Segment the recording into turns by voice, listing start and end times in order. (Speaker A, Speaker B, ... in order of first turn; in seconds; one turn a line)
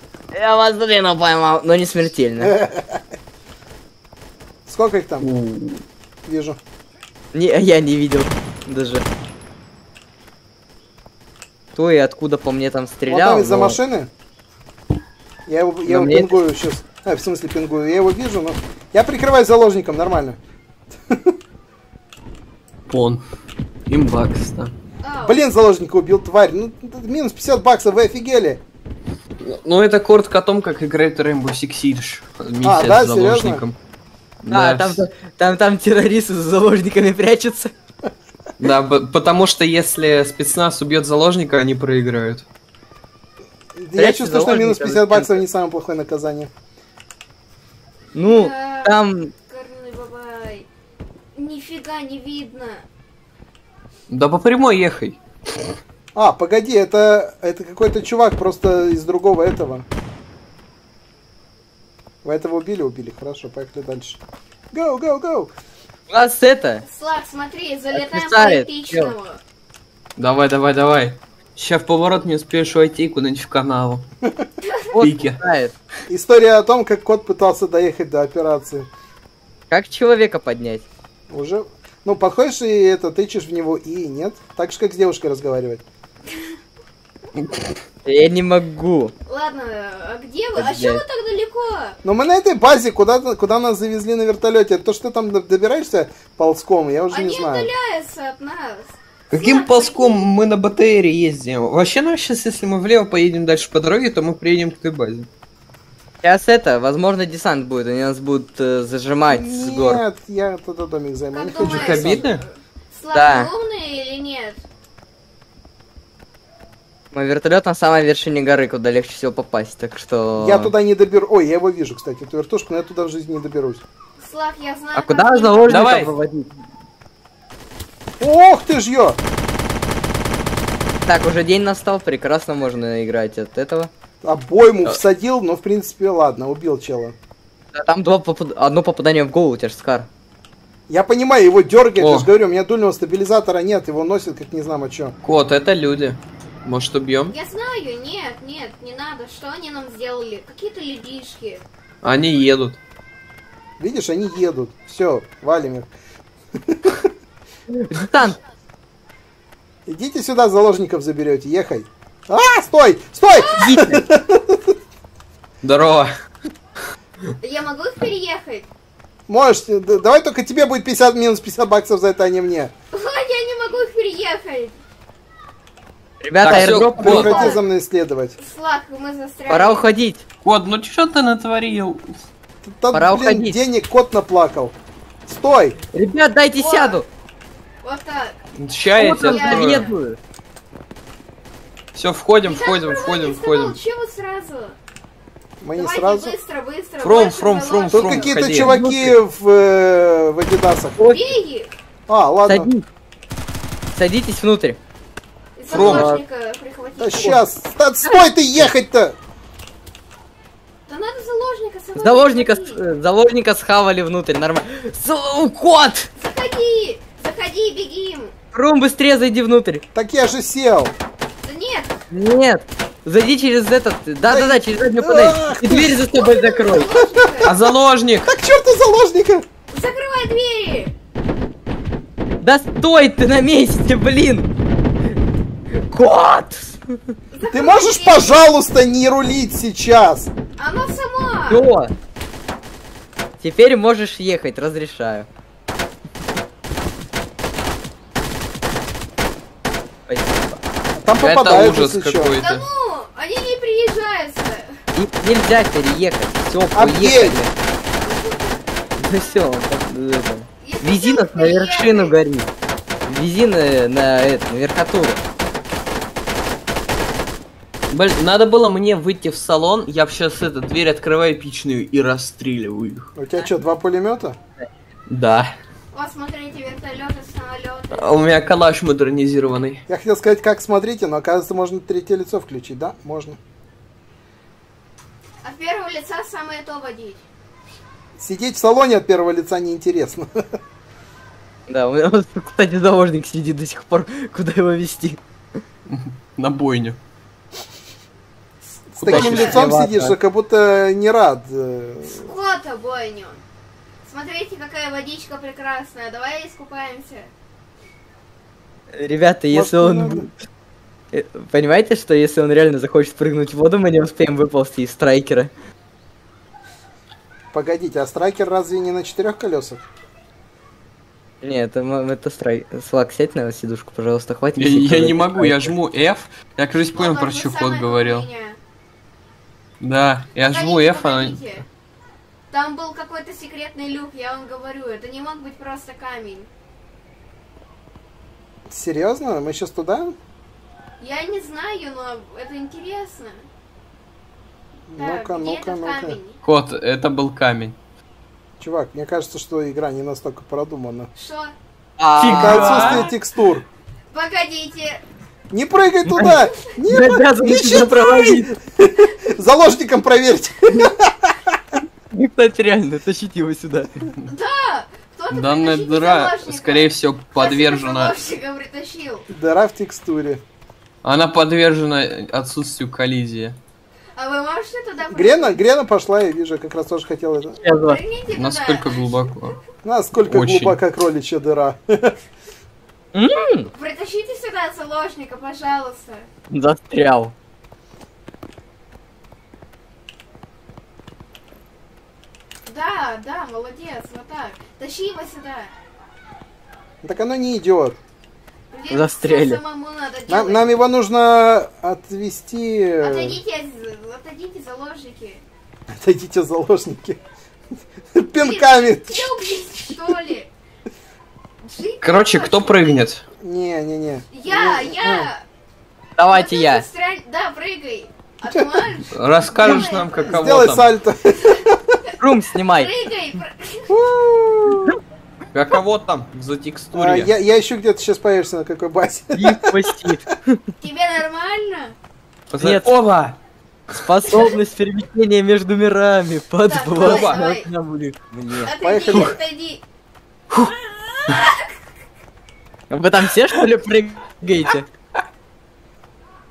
Speaker A: 0.3-2.5
Speaker B: 2.4-3.0
Speaker B: 4.7-5.3
Speaker C: 5.2-5.8
Speaker B: 6.2-6.6
Speaker A: 7.3-9.0
Speaker A: 11.7-13.8
Speaker B: 13.1-14.1
Speaker B: 15.5-20.4
Speaker A: 15.8-16.4
Speaker B: 21.1-21.4
Speaker C: 22.9-23.2
Speaker C: 23.9-24.7
Speaker D: 25.0-25.4
Speaker B: 25.2-28.6
Speaker C: 29.4-33.8
Speaker B: 32.6-33.6
Speaker C: 34.4-35.0
Speaker A: 34.5-37.7
Speaker C: 38.6-42.5
Speaker B: 43.8-46.5
Speaker A: 44.0-45.4
Speaker A: 48.1-49.3
Speaker D: 48.2-50.7
Speaker D: 51.3-52.8
Speaker C: 54.1-55.2
Speaker B: 56.1-59.9
Speaker B: 62.2-64.2
Speaker B: 64.7-65.5
Speaker A: 66.1-66.8
Speaker D: 66.8-69.4
Speaker A: 67.9-69.1
Speaker C: 70.2-74.0
Speaker D: 74.6-74.9
Speaker A: 74.9-75.7
Speaker C: 75.0-75.4
Speaker B: 76.1-78.9
Speaker A: 79.7-80.8
Speaker B: 81.3-85.8
Speaker C: 87.3-87.7
Speaker A: 88.0-89.1
Speaker D: 89.3-92.0
Speaker A: 90.6-91.0
Speaker B: 92.0-97.7
Speaker D: 97.1-100.3
Speaker C: 99.3-105.3
Speaker A: 106.2-110.0
Speaker B: 109.3-112.2
Speaker D: 111.3-114.6
Speaker C: 111.6-112.4
Speaker A: 113.1-113.5
Speaker A: 117.1-120.7
Speaker B: 120.4-123.8
Speaker D: 124.2-125.9
Speaker A: 125.0-126.5
Speaker C: 125.7-126.1
Speaker B: 128.2-129.2
Speaker A: 131.0-133.9
Speaker B: 134.2-137.2
Speaker A: 137.7-140.1
Speaker B: 140.9-145.2
Speaker C: 142.0-142.3
Speaker C: 145.2-147.3
Speaker D: 147.3-151.6
Speaker C: 152.0-152.8
Speaker B: 153.8-155.9
Speaker B: 156.6-157.1
Speaker A: 157.7-158.4
Speaker B: 159.9-164.7
Speaker D: 163.3-163.8
Speaker A: 163.6-164.0
Speaker C: 165.6-166.1
Speaker D: 167.4-168.7
Speaker B: 169.3-172.7
Speaker D: 172.9-174.8
Speaker A: 176.2-177.5
Speaker C: 176.4-177.6
Speaker B: 176.4-178.3
Speaker D: 177.1-177.6
Speaker D: 178.4-179.9
Speaker A: 179.5-180.2
Speaker C: 180.4-182.2
Speaker B: 182.6-184.7
Speaker A: 182.9-183.6
Speaker B: 185.2-185.8
Speaker A: 185.9-187.1
Speaker D: 186.6-187.0
Speaker D: 187.8-188.4
Speaker C: 188.6-189.9
Speaker D: 188.9-189.9
Speaker A: 189.0-190.2
Speaker C: 191.9-193.8
Speaker D: 192.4-194.8
Speaker B: 195.6-196.3
Speaker D: 195.7-198.4
Speaker C: 197.0-198.8
Speaker B: 197.9-201.0
Speaker A: 198.5-199.1
Speaker A: 201.0-201.3
Speaker D: 201.1-201.7
Speaker B: 202.1-202.7
Speaker A: 202.4-202.8
Speaker A: 203.9-204.8
Speaker D: 205.6-207.4
Speaker B: 205.7-206.2
Speaker A: 205.7-206.2
Speaker B: 207.0-209.2
Speaker D: 210.9-212.8
Speaker A: 212.0-216.1
Speaker D: 216.2-218.3
Speaker A: 218.5-219.8
Speaker B: 219.9-220.9
Speaker D: 221.4-221.9
Speaker A: 222.1-226.9
Speaker B: 224.3-226.1
Speaker D: 226.1-227.5
Speaker B: 226.9-227.7
Speaker C: 227.4-228.3
Speaker B: 228.2-229.4
Speaker D: 229.7-230.9
Speaker A: 232.4-234.5
Speaker A: 235.7-237.0
Speaker D: 237.3-238.4
Speaker B: 237.5-240.3
Speaker D: 240.6-241.6
Speaker A: 241.5-241.9
Speaker A: 243.4-245.3
Speaker A: 250.1-250.6
Speaker B: 250.9-252.3
Speaker C: 251.2-252.7
Speaker D: 252.4-254.8
Speaker A: 254.9-257.5
Speaker B: 256.7-257.4
Speaker D: 258.0-259.4
Speaker A: 259.0-262.5
Speaker D: 260.6-262.1
Speaker A: 263.0-265.2
Speaker C: 267.9-273.1
Speaker B: 273.2-274.4
Speaker C: 275.1-275.5
Speaker D: 275.9-278.1
Speaker C: 277.9-279.8
Speaker B: 279.9-283.4
Speaker D: 285.4-287.2
Speaker B: 288.2-290.6
Speaker A: 291.7-295.2
Speaker C: 295.9-297.0
Speaker B: 298.9-302.3
Speaker A: 299.0-300.1
Speaker C: 299.1-299.4
Speaker D: 299.1-299.7
Speaker D: 302.1-303.4
Speaker D: 304.0-307.3
Speaker A: 308.9-310.3
Speaker B: 309.5-310.3
Speaker A: 311.1-315.5
Speaker B: 317.5-319.9
Speaker A: 321.4-325.7
Speaker C: 324.6-328.2
Speaker D: 326.9-328.6
Speaker C: 329.8-331.4
Speaker D: 330.4-331.6
Speaker D: 332.5-336.5
Speaker B: 338.7-340.1
Speaker D: 341.0-343.4
Speaker B: 344.9-346.2
Speaker D: 345.0-346.4
Speaker C: 346.4-347.8
Speaker B: 348.6-351.1
Speaker D: 351.1-351.5
Speaker A: 352.0-353.1
Speaker C: 352.2-353.1
Speaker B: 352.3-353.7
Speaker D: 354.1-355.0
Speaker B: 355.5-361.6
Speaker A: 356.0-358.5
Speaker A: 362.1-364.1
Speaker D: 364.2-369.2
Speaker C: 365.3-368.1
Speaker B: 369.3-370.4
Speaker C: 371.0-373.6
Speaker D: 374.1-375.6
Speaker B: 375.1-377.6
Speaker A: 377.6-378.0
Speaker D: 377.6-379.5
Speaker C: 378.3-379.6
Speaker B: 379.8-382.2
Speaker C: 380.2-380.8
Speaker A: 383.1-383.7
Speaker D: 383.7-386.3
Speaker A: 386.5-387.3
Speaker D: 392.6-395.7
Speaker B: 397.0-398.0
Speaker D: 398.7-400.7
Speaker A: 398.9-399.6
Speaker B: 400.3-403.4
Speaker D: 403.0-405.4
Speaker B: 405.9-407.2
Speaker B: 408.1-409.3
Speaker D: 408.3-410.5
Speaker D: 411.6-413.0
Speaker C: 412.0-413.2
Speaker B: 413.4-415.3
Speaker D: 414.3-415.4
Speaker A: 416.2-416.8
Speaker D: 416.3-420.4
Speaker B: 418.4-418.9
Speaker C: 419.1-420.9
Speaker B: 419.6-422.0
Speaker D: 421.3-422.2
Speaker A: 422.2-422.9
Speaker D: 422.7-423.9
Speaker B: 423.9-425.0
Speaker C: 425.5-427.3
Speaker B: 426.9-430.1
Speaker A: 429.3-430.6
Speaker D: 430.8-431.9
Speaker C: 432.5-433.4
Speaker A: 432.6-432.9
Speaker A: 433.9-438.7
Speaker D: 436.6-437.7
Speaker C: 437.0-437.4
Speaker D: 438.6-439.8
Speaker B: 438.8-439.4
Speaker D: 440.6-441.7
Speaker A: 442.9-444.9